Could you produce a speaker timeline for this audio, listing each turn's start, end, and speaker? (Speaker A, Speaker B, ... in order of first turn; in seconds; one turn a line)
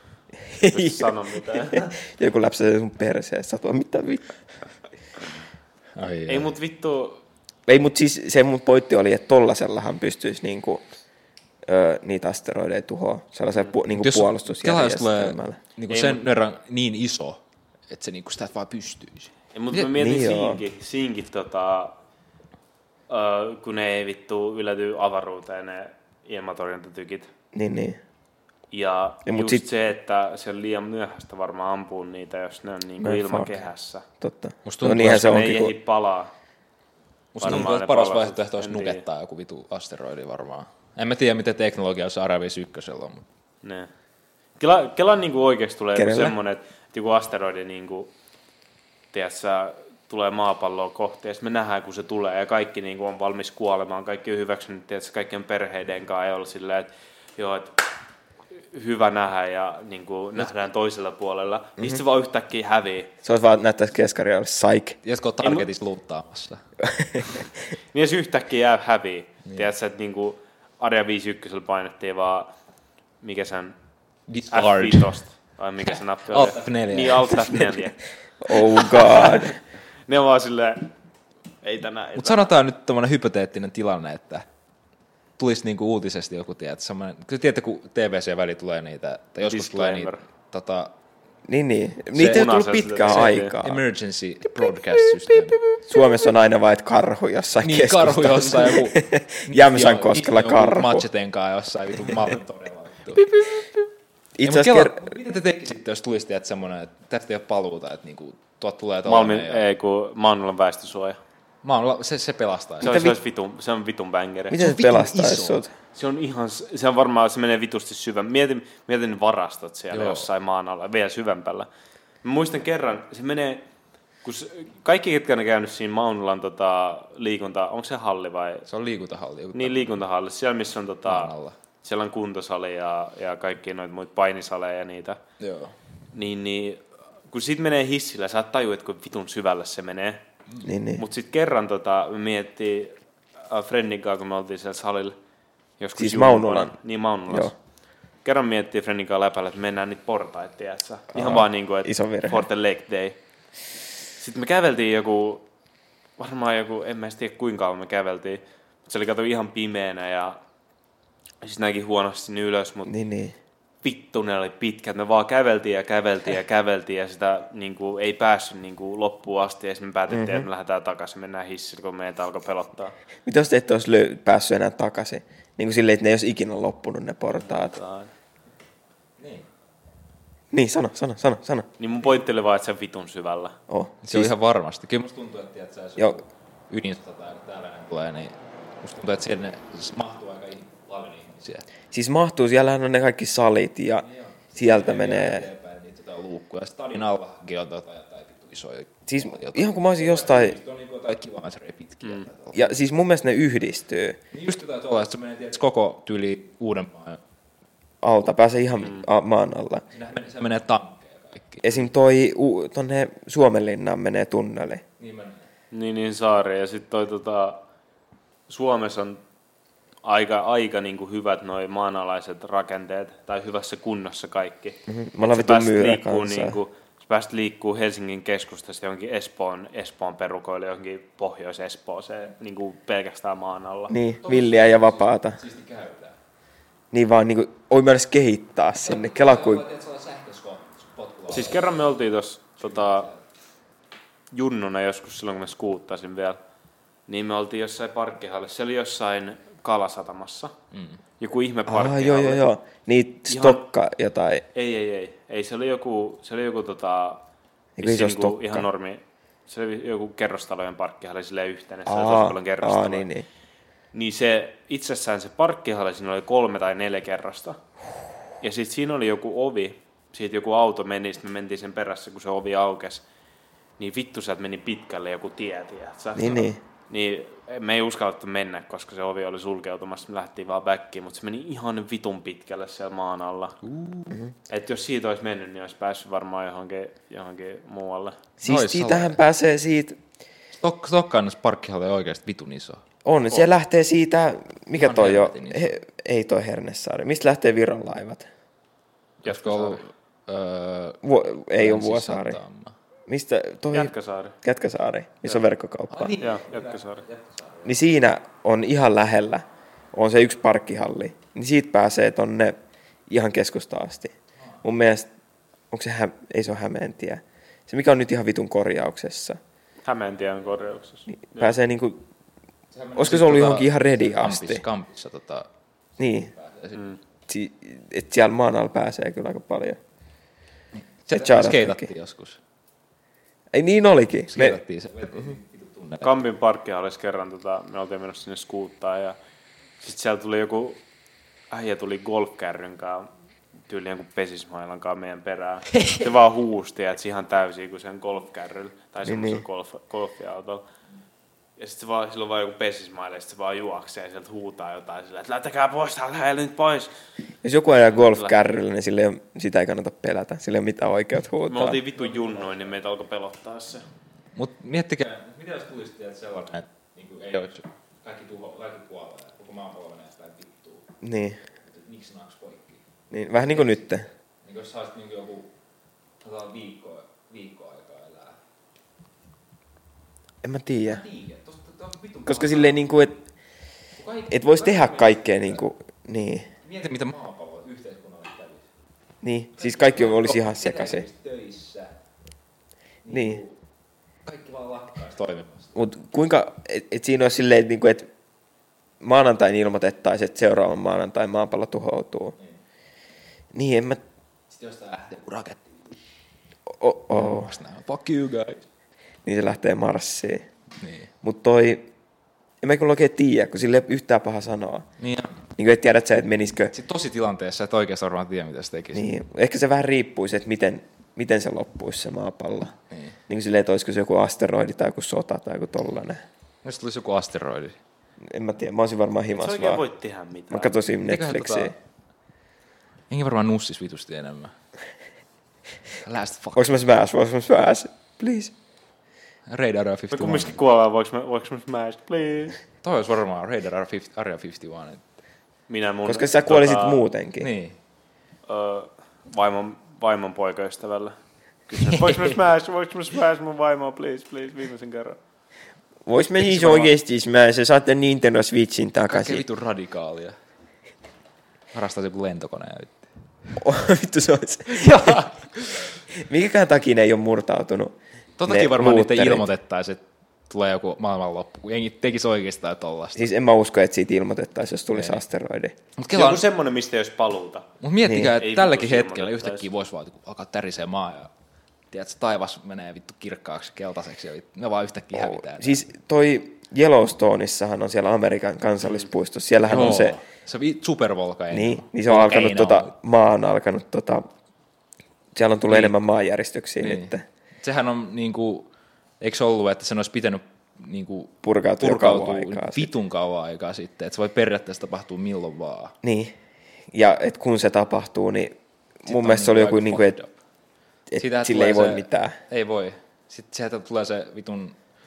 Speaker A: 0.5-4.3
Speaker B: 0.7-1.9
Speaker C: 6.0-6.5
Speaker B: 6.3-7.2
Speaker A: 7.7-10.8
Speaker A: 11.7-15.6
Speaker C: 13.9-19.9
Speaker B: 15.9-16.2
Speaker B: 19.6-21.9
Speaker A: 19.9-20.6
Speaker B: 23.1-27.3
Speaker A: 27.5-28.0
Speaker B: 28.7-34.1
Speaker A: 29.3-29.6
Speaker A: 33.0-33.5
Speaker A: 34.2-35.8
Speaker C: 34.6-35.5
Speaker B: 35.0-36.3
Speaker C: 37.3-43.2
Speaker B: 37.4-39.0
Speaker B: 43.6-43.9
Speaker B: 44.6-48.1
Speaker A: 46.0-46.4
Speaker B: 49.1-57.9
Speaker B: 58.7-63.1
Speaker A: 63.2-65.0
Speaker C: 65.0-66.6
Speaker B: 65.4-65.7
Speaker A: 66.8-67.4
Speaker B: 67.9-72.5
Speaker B: 73.2-73.8
Speaker C: 74.3-75.2
Speaker B: 74.5-78.0
Speaker C: 75.9-77.7
Speaker A: 78.4-79.6
Speaker B: 78.5-79.6
Speaker B: 80.1-80.9
Speaker B: 81.6-82.5
Speaker C: 82.2-84.5
Speaker C: 85.4-90.9
Speaker B: 89.5-90.2
Speaker A: 91.5-93.8
Speaker B: 92.2-93.5
Speaker C: 92.2-95.8
Speaker A: 95.8-101.1
Speaker C: 97.6-103.4
Speaker A: 104.4-105.0
Speaker C: 104.4-109.6
Speaker B: 109.0-111.2
Speaker C: 111.6-113.0
Speaker B: 112.8-114.6
Speaker A: 112.8-113.2
Speaker A: 114.5-115.7
Speaker C: 114.6-115.6
Speaker B: 115.9-121.7
Speaker C: 119.9-120.3
Speaker B: 122.2-123.7
Speaker B: 124.2-128.7
Speaker C: 128.7-130.0
Speaker B: 129.5-135.2
Speaker C: 131.1-131.6
Speaker C: 135.4-135.7
Speaker B: 136.1-140.2
Speaker A: 140.6-141.0
Speaker B: 141.0-143.0
Speaker B: 143.5-145.2
Speaker B: 145.8-147.5
Speaker A: 146.0-146.8
Speaker B: 148.2-153.2
Speaker A: 151.1-152.4
Speaker B: 154.2-155.4
Speaker B: 156.2-160.4
Speaker B: 161.4-162.9
Speaker A: 162.9-163.3
Speaker B: 163.8-172.9
Speaker A: 170.1-170.5
Speaker A: 173.2-177.8
Speaker B: 177.3-178.1
Speaker C: 179.2-179.5
Speaker A: 180.5-181.7
Speaker B: 181.8-183.6
Speaker A: 183.7-184.3
Speaker C: 184.0-191.7
Speaker A: 191.9-195.4
Speaker C: 194.0-202.8
Speaker A: 199.1-200.6
Speaker A: 202.5-204.2
Speaker C: 204.3-207.2
Speaker A: 208.0-209.8
Speaker C: 209.9-211.7
Speaker A: 211.6-214.8
Speaker C: 215.0-215.5
Speaker B: 215.7-217.6
Speaker B: 218.5-219.2
Speaker B: 220.0-233.9
Speaker A: 224.9-226.6
Speaker A: 233.9-235.4
Speaker C: 234.2-236.2
Speaker A: 236.9-239.7
Speaker C: 238.8-241.8
Speaker B: 241.3-243.1
Speaker C: 242.6-243.2
Speaker B: 244.3-246.4
Speaker B: 247.1-250.5
Speaker C: 250.7-251.0
Speaker B: 251.2-252.5
Speaker A: 251.7-254.4
Speaker B: 253.3-253.7
Speaker B: 254.5-257.2
Speaker A: 257.8-258.6
Speaker B: 257.8-263.1
Speaker A: 261.9-263.3
Speaker B: 263.9-267.6
Speaker B: 268.4-273.1
Speaker B: 273.8-283.6
Speaker A: 276.2-276.6
Speaker C: 283.6-284.2
Speaker B: 284.5-288.2
Speaker A: 288.4-290.0
Speaker C: 288.4-289.2
Speaker C: 290.5-292.8
Speaker A: 293.1-298.3
Speaker C: 294.8-295.8
Speaker B: 299.2-299.8
Speaker C: 299.2-302.8
Speaker A: 301.0-302.4
Speaker A: 303.1-306.2
Speaker B: 303.7-304.4
Speaker C: 305.9-307.7
Speaker B: 306.2-307.1
Speaker A: 307.6-312.6
Speaker A: 313.1-315.1
Speaker A: 315.7-319.4
Speaker B: 319.9-321.6
Speaker A: 321.3-322.0
Speaker C: 322.7-325.5
Speaker A: 323.0-324.6
Speaker A: 326.0-326.3
Speaker C: 326.3-326.8
Speaker A: 327.3-329.8
Speaker C: 331.1-332.4
Speaker A: 331.1-331.9
Speaker A: 333.5-334.6
Speaker C: 334.3-336.2
Speaker B: 336.0-339.2
Speaker B: 339.8-340.8
Speaker B: 341.5-343.1
Speaker B: 343.7-350.6
Speaker A: 349.1-349.4
Speaker B: 351.6-356.9
Speaker A: 357.4-361.8
Speaker B: 357.9-358.3
Speaker B: 361.5-363.9
Speaker C: 362.1-362.7
Speaker C: 364.4-370.9
Speaker A: 371.0-371.4
Speaker C: 371.6-372.8
Speaker A: 373.1-374.1
Speaker C: 373.5-373.8
Speaker C: 374.4-375.5
Speaker C: 376.2-378.4
Speaker A: 380.4-381.0
Speaker C: 380.9-382.9
Speaker A: 382.3-383.2
Speaker C: 384.0-385.6
Speaker A: 384.3-386.5
Speaker C: 386.6-388.7
Speaker A: 389.2-391.1
Speaker C: 389.6-391.9
Speaker C: 393.0-393.6
Speaker A: 393.1-393.4
Speaker C: 394.2-395.7
Speaker A: 395.8-398.1
Speaker A: 399.0-402.4
Speaker A: 403.5-404.0
Speaker C: 404.5-406.0
Speaker A: 406.7-407.5
Speaker C: 407.1-408.6
Speaker A: 409.2-410.5
Speaker C: 410.8-411.1
Speaker A: 411.2-411.9
Speaker A: 412.6-414.9
Speaker C: 415.0-415.4
Speaker A: 415.6-416.7
Speaker C: 416.7-419.1
Speaker A: 418.9-422.7
Speaker A: 423.3-426.2
Speaker C: 426.6-427.8
Speaker A: 428.2-429.8
Speaker B: 429.3-430.8
Speaker A: 430.5-431.7
Speaker C: 431.1-431.8
Speaker C: 433.1-434.5
Speaker C: 436.0-436.8
Speaker A: 436.6-438.5
Speaker C: 439.5-440.6
Speaker B: 440.1-442.6
Speaker C: 442.8-445.0
Speaker B: 445.7-447.0
Speaker A: 446.1-447.5
Speaker C: 447.4-447.8
Speaker B: 448.5-451.2
Speaker B: 451.7-455.2
Speaker C: 451.9-452.3
Speaker A: 456.1-459.4
Speaker C: 456.4-456.9
Speaker C: 459.1-460.4
Speaker C: 461.7-463.0
Speaker A: 463.6-465.2
Speaker C: 464.8-465.7
Speaker A: 466.1-467.9
Speaker C: 468.4-473.3
Speaker A: 468.5-469.5
Speaker A: 473.2-475.8
Speaker C: 474.9-475.2
Speaker C: 476.0-476.4
Speaker B: 476.1-477.7
Speaker C: 477.8-481.3
Speaker A: 478.1-478.4
Speaker B: 478.4-479.7
Speaker C: 481.9-485.8
Speaker A: 485.1-490.2
Speaker C: 489.6-492.9
Speaker A: 491.5-494.3
Speaker A: 495.4-497.2
Speaker C: 495.7-495.9
Speaker C: 496.8-498.7
Speaker C: 499.2-505.9
Speaker A: 501.4-502.9
Speaker A: 506.0-506.4
Speaker A: 506.9-510.2
Speaker C: 509.1-510.3
Speaker A: 511.1-512.4
Speaker C: 511.2-514.8